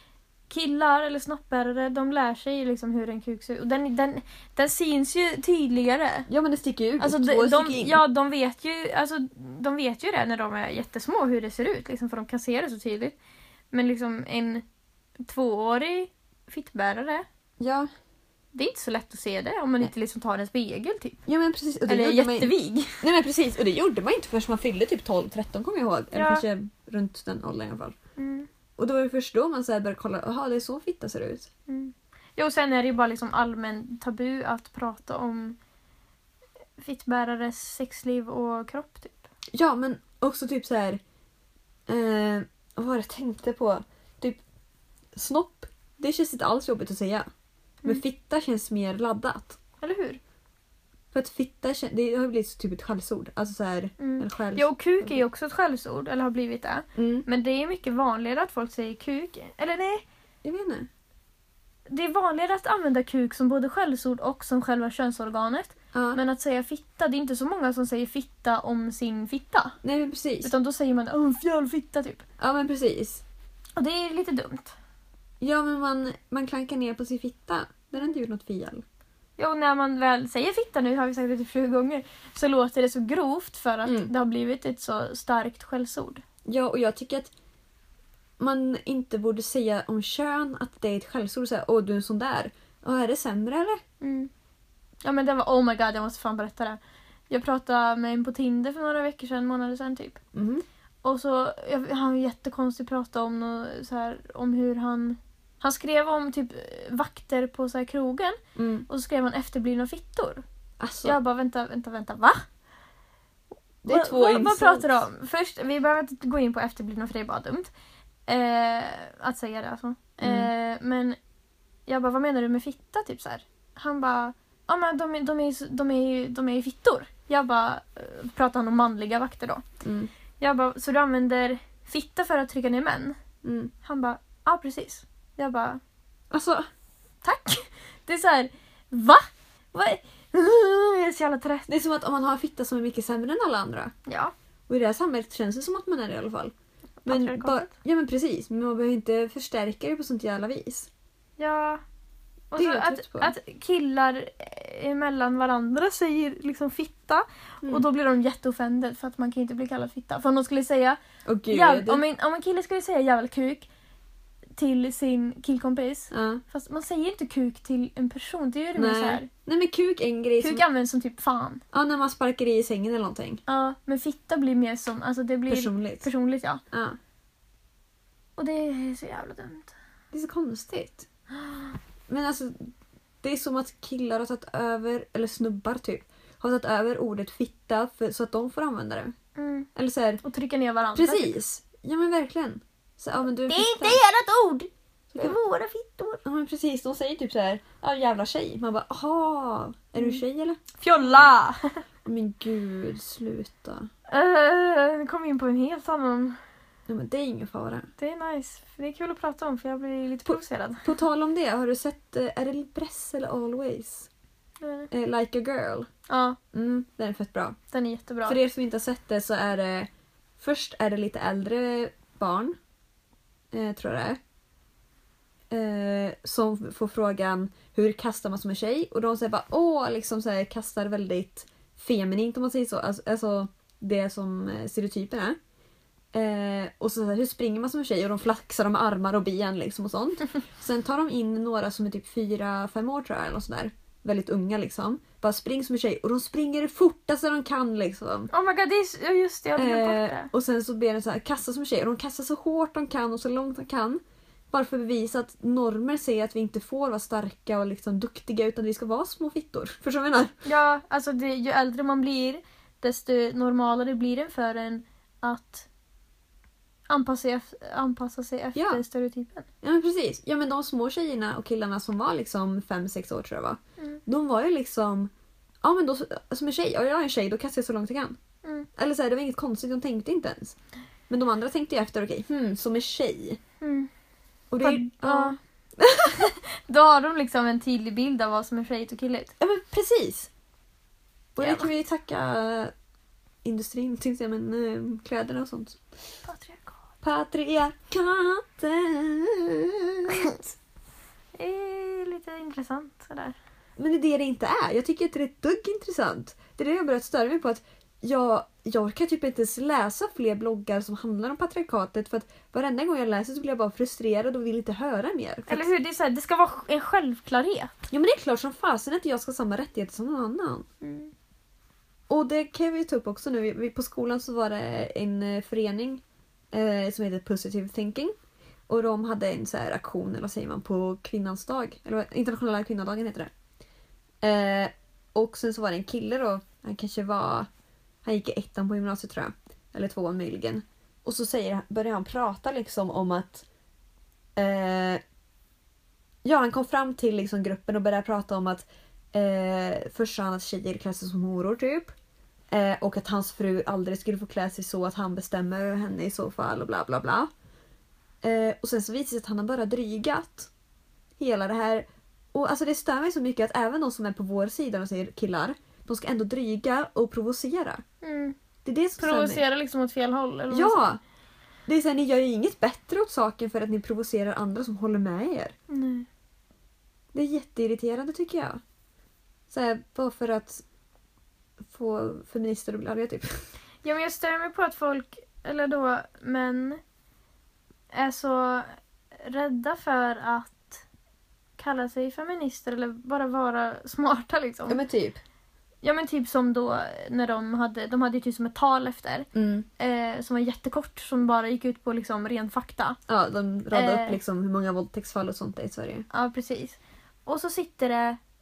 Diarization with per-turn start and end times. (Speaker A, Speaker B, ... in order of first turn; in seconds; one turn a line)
Speaker A: 0.5-6.3
Speaker B: 6.3-8.0
Speaker A: 7.0-13.2
Speaker A: 13.7-14.7
Speaker A: 15.2-17.3
Speaker B: 17.6-17.9
Speaker A: 18.5-21.2
Speaker B: 21.3-28.0
Speaker A: 21.9-23.1
Speaker A: 26.1-26.4
Speaker A: 28.2-28.5
Speaker B: 28.8-31.5
Speaker A: 31.7-35.6
Speaker A: 36.8-39.3
Speaker B: 39.5-41.0
Speaker B: 41.9-44.4
Speaker B: 45.1-47.3
Speaker B: 47.8-49.6
Speaker A: 49.8-50.2
Speaker B: 51.1-55.2
Speaker A: 54.0-60.0
Speaker B: 57.0-57.3
Speaker B: 60.4-60.9
Speaker A: 61.9-69.8
Speaker B: 65.9-66.2
Speaker B: 69.8-70.5
Speaker A: 70.4-72.2
Speaker B: 72.4-73.2
Speaker A: 73.8-74.8
Speaker B: 75.4-78.8
Speaker A: 79.4-86.2
Speaker B: 83.8-84.1
Speaker B: 86.5-87.3
Speaker B: 88.4-93.8
Speaker A: 94.0-94.3
Speaker A: 95.0-96.8
Speaker A: 97.3-100.2
Speaker B: 100.3-100.7
Speaker A: 101.0-110.4
Speaker B: 108.6-108.9
Speaker B: 110.8-111.2
Speaker A: 111.0-112.4
Speaker B: 113.8-115.0
Speaker A: 113.9-117.7
Speaker A: 118.3-121.2
Speaker B: 120.2-120.5
Speaker A: 121.9-129.6
Speaker B: 129.8-130.1
Speaker A: 130.4-133.2
Speaker B: 133.4-133.7
Speaker A: 133.8-135.8
Speaker B: 136.3-136.7
Speaker A: 137.2-141.7
Speaker B: 141.7-143.9
Speaker A: 144.1-144.3
Speaker B: 144.7-146.5
Speaker A: 147.0-147.7
Speaker B: 147.1-150.9
Speaker A: 151.4-151.8
Speaker A: 152.5-161.0
Speaker B: 152.6-153.3
Speaker B: 161.3-162.0
Speaker A: 161.5-163.7
Speaker A: 164.6-169.3
Speaker B: 166.1-166.4
Speaker B: 168.8-170.6
Speaker A: 170.4-171.6
Speaker B: 171.7-173.4
Speaker A: 173.5-176.6
Speaker B: 175.5-176.1
Speaker B: 176.7-177.0
Speaker A: 178.4-179.7
Speaker B: 180.1-181.1
Speaker A: 181.4-181.7
Speaker B: 182.1-182.7
Speaker B: 183.2-189.1
Speaker A: 189.4-189.7
Speaker B: 189.8-190.2
Speaker A: 190.2-191.4
Speaker B: 190.9-194.0
Speaker A: 193.5-196.2
Speaker B: 196.2-200.6
Speaker A: 200.8-201.8
Speaker B: 202.1-203.9
Speaker A: 204.1-206.4
Speaker B: 206.9-207.9
Speaker A: 208.0-210.9
Speaker B: 210.3-214.1
Speaker A: 214.6-214.9
Speaker B: 214.9-215.9
Speaker A: 216.1-216.4
Speaker B: 216.5-217.6
Speaker A: 217.7-218.4
Speaker B: 218.2-222.6
Speaker B: 223.5-224.2
Speaker B: 225.5-235.4
Speaker B: 236.1-248.3
Speaker A: 248.3-250.3
Speaker B: 249.6-260.4
Speaker A: 260.4-265.7
Speaker A: 266.9-269.5
Speaker B: 268.6-268.8
Speaker B: 269.6-275.1
Speaker B: 275.6-278.2
Speaker B: 278.8-280.6
Speaker B: 281.1-283.4
Speaker A: 283.6-283.9
Speaker B: 284.5-286.3
Speaker A: 284.6-285.4
Speaker A: 286.1-289.3
Speaker B: 289.4-290.3
Speaker B: 291.4-292.7
Speaker A: 291.4-291.7
Speaker B: 293.4-295.8
Speaker A: 296.2-296.8
Speaker B: 297.0-300.5
Speaker A: 301.4-303.4
Speaker B: 303.8-315.7
Speaker A: 315.5-317.8
Speaker B: 317.9-320.7
Speaker A: 320.8-321.1
Speaker B: 322.1-328.1
Speaker B: 328.7-333.3
Speaker B: 334.2-337.5
Speaker B: 338.0-343.5
Speaker B: 344.4-345.0
Speaker B: 346.2-351.9
Speaker B: 352.5-357.3
Speaker B: 358.2-360.5
Speaker B: 361.2-367.8
Speaker A: 368.0-368.4
Speaker B: 368.6-369.4
Speaker A: 369.0-370.8
Speaker B: 370.5-371.0
Speaker B: 371.7-375.6
Speaker A: 375.7-376.1
Speaker B: 377.1-378.6
Speaker B: 379.5-380.6
Speaker B: 381.6-383.5
Speaker A: 383.8-386.8
Speaker A: 387.9-390.8
Speaker A: 391.6-394.8
Speaker B: 394.7-395.2
Speaker A: 395.8-403.0
Speaker B: 399.4-399.7
Speaker B: 403.1-406.1
Speaker A: 403.7-404.2
Speaker A: 406.1-408.2